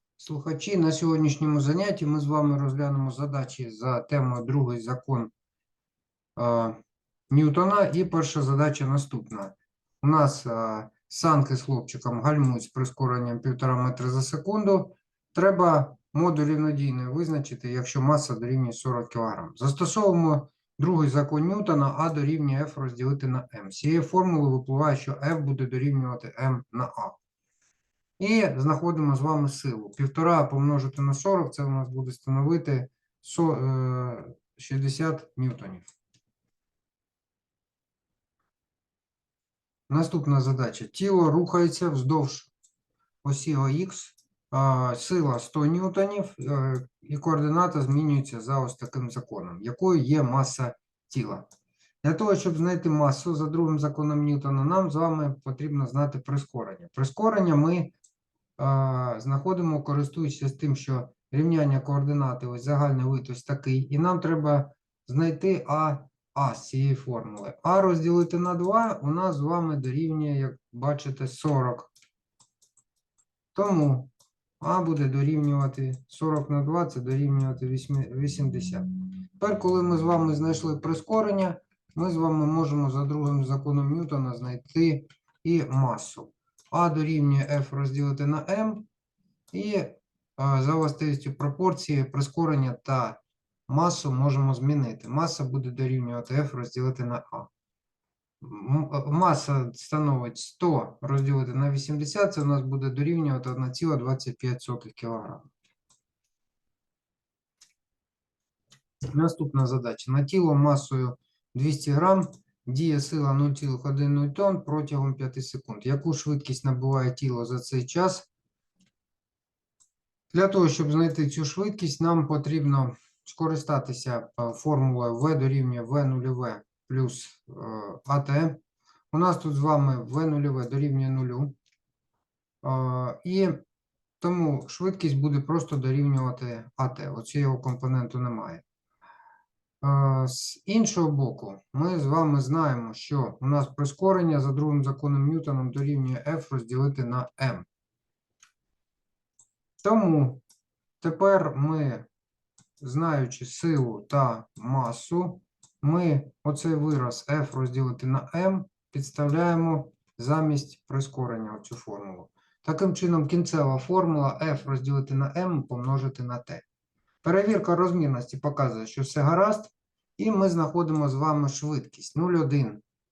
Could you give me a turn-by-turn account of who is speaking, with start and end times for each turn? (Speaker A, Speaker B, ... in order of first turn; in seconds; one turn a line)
Speaker A: 0.2-5.3
Speaker A: 6.4-6.8
Speaker A: 7.3-27.2
Speaker A: 28.2-35.9
Speaker A: 39.9-42.5
Speaker A: 43.2-51.5
Speaker A: 52.0-58.0
Speaker A: 58.6-71.9
Speaker A: 73.5-78.9
Speaker A: 79.4-88.9
Speaker A: 89.5-97.5
Speaker A: 98.4-105.5
Speaker A: 109.1-118.3
Speaker A: 120.3-128.6
Speaker A: 129.1-131.6
Speaker A: 132.6-133.6
Speaker A: 134.2-138.6
Speaker A: 139.8-147.7
Speaker A: 149.8-150.4
Speaker A: 151.0-152.1
Speaker A: 152.8-166.6
Speaker A: 167.2-172.8